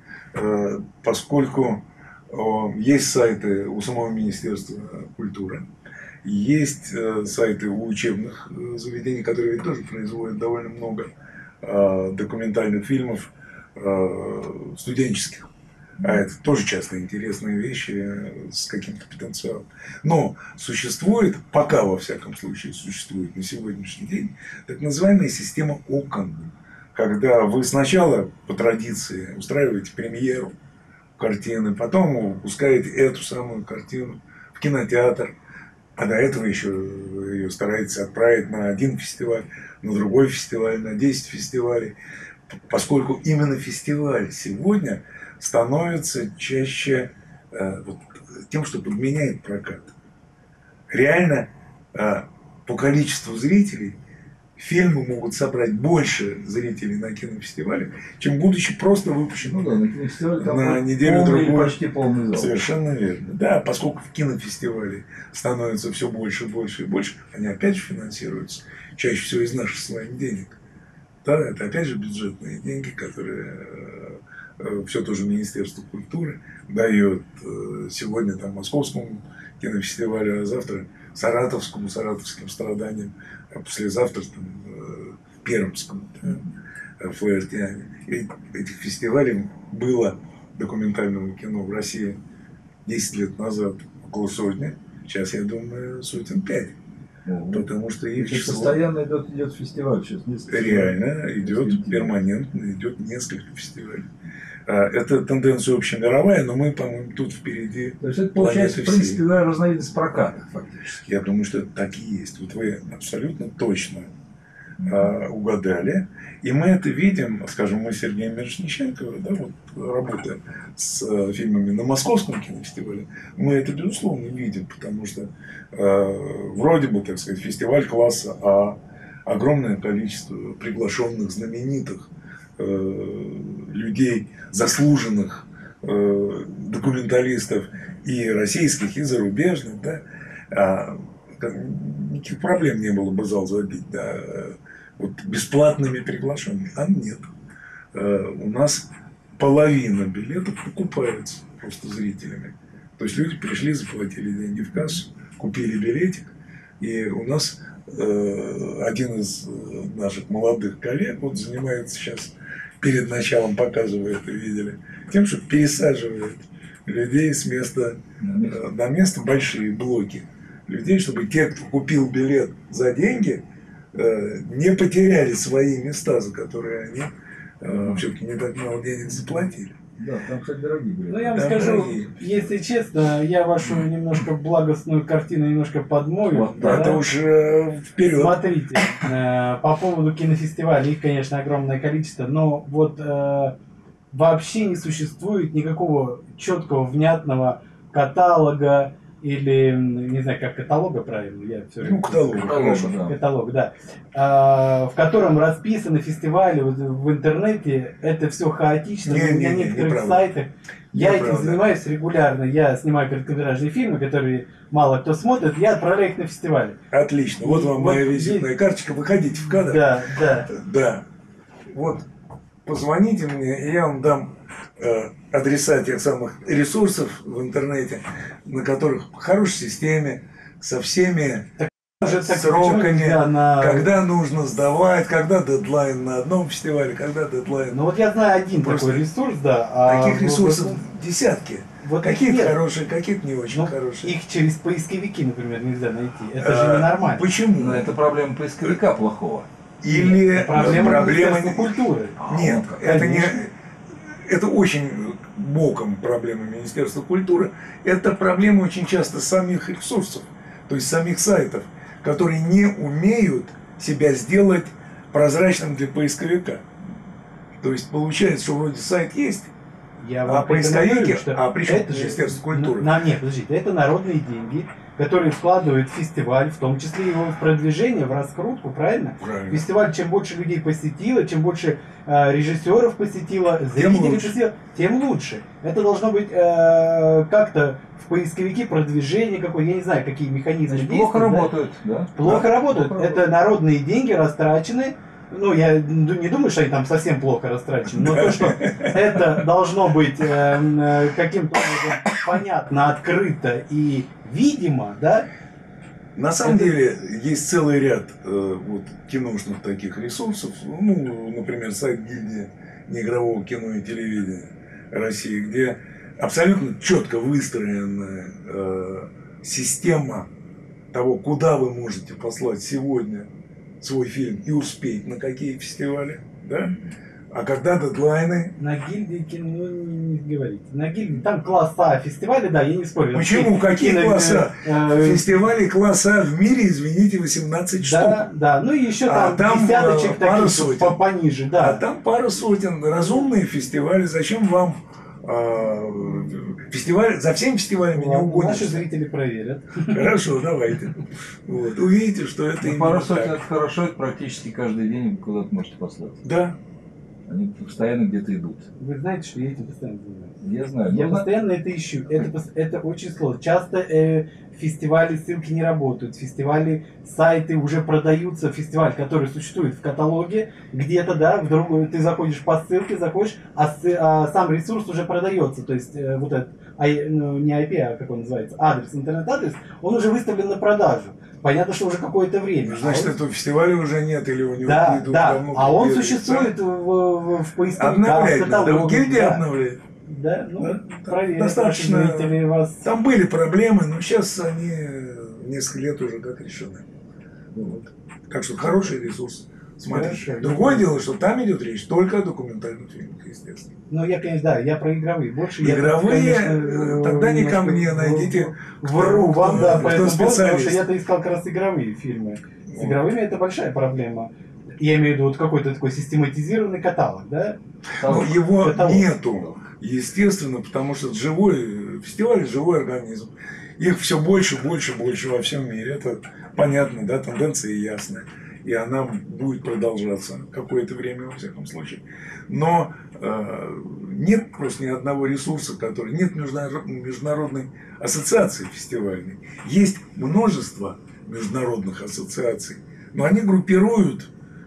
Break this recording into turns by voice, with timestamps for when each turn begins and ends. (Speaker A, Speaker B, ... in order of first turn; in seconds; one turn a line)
Speaker A: 0.3-5.7
Speaker A: 6.2-11.1
Speaker A: 11.6-30.5
Speaker A: 31.2-35.4
Speaker A: 36.0-41.9
Speaker A: 42.7-49.9
Speaker A: 50.9-54.0
Speaker A: 54.6-59.7
Speaker B: 59.5-62.5
Speaker A: 60.4-61.8
Speaker A: 62.4-70.6
Speaker A: 71.2-86.4
Speaker A: 87.0-92.2
Speaker A: 92.8-96.8
Speaker B: 97.3-102.2
Speaker A: 97.5-98.8
Speaker A: 100.5-104.1
Speaker A: 104.7-109.2
Speaker B: 108.0-111.0
Speaker A: 111.0-114.1
Speaker B: 114.8-115.1
Speaker A: 114.9-147.3
Speaker A: 147.9-179.8
Speaker B: 168.2-168.6
Speaker B: 180.0-181.8
Speaker C: 181.1-187.0
Speaker A: 181.4-182.2
Speaker B: 186.3-187.0
Speaker A: 186.6-188.4
Speaker C: 188.0-193.5
Speaker C: 194.1-216.8
Speaker A: 201.8-203.0
Speaker B: 202.4-203.2
Speaker A: 209.0-210.2
Speaker A: 210.9-211.7
Speaker A: 216.9-219.9
Speaker C: 217.4-218.5
Speaker C: 219.5-220.5
Speaker A: 220.5-221.1
Speaker A: 221.7-222.1
Speaker A: 222.7-237.8
Speaker C: 231.6-233.9
Speaker C: 237.7-240.8
Speaker A: 238.6-239.1
Speaker A: 239.8-244.2
Speaker C: 241.8-242.6
Speaker C: 243.5-247.4
Speaker A: 246.4-247.9
Speaker B: 247.6-249.5
Speaker A: 249.8-266.7
Speaker C: 249.9-252.2
Speaker B: 252.2-253.3
Speaker C: 252.8-253.4
Speaker A: 267.6-269.5
Speaker C: 270.0-291.5
Speaker A: 270.2-272.9
Speaker A: 279.2-279.7
Speaker A: 283.8-284.4
Speaker B: 290.7-293.2
Speaker C: 292.2-305.3
Speaker A: 297.9-299.4
Speaker A: 306.2-320.3
Speaker C: 306.4-306.8
Speaker A: 320.9-323.3
Speaker A: 323.8-326.8
Speaker B: 326.7-327.0
Speaker A: 327.3-328.6
Speaker C: 328.6-335.4
Speaker A: 333.1-338.2
Speaker C: 337.8-341.8
Speaker A: 339.0-341.0
Speaker A: 341.6-348.9
Speaker C: 347.9-350.1
Speaker A: 349.9-353.4
Speaker B: 352.6-356.2
Speaker A: 356.2-356.6
Speaker B: 357.3-358.7
Speaker C: 358.8-383.2
Speaker B: 360.4-361.3
Speaker A: 382.6-386.5
Speaker C: 384.6-389.4
Speaker A: 387.8-389.8
Speaker C: 390.1-392.9
Speaker A: 390.6-396.9
Speaker B: 397.5-397.9
Speaker A: 398.3-403.7
Speaker C: 399.9-400.9
Speaker C: 403.9-419.1
Speaker A: 405.6-410.8
Speaker A: 412.7-413.0
Speaker B: 418.0-418.5
Speaker A: 418.0-444.3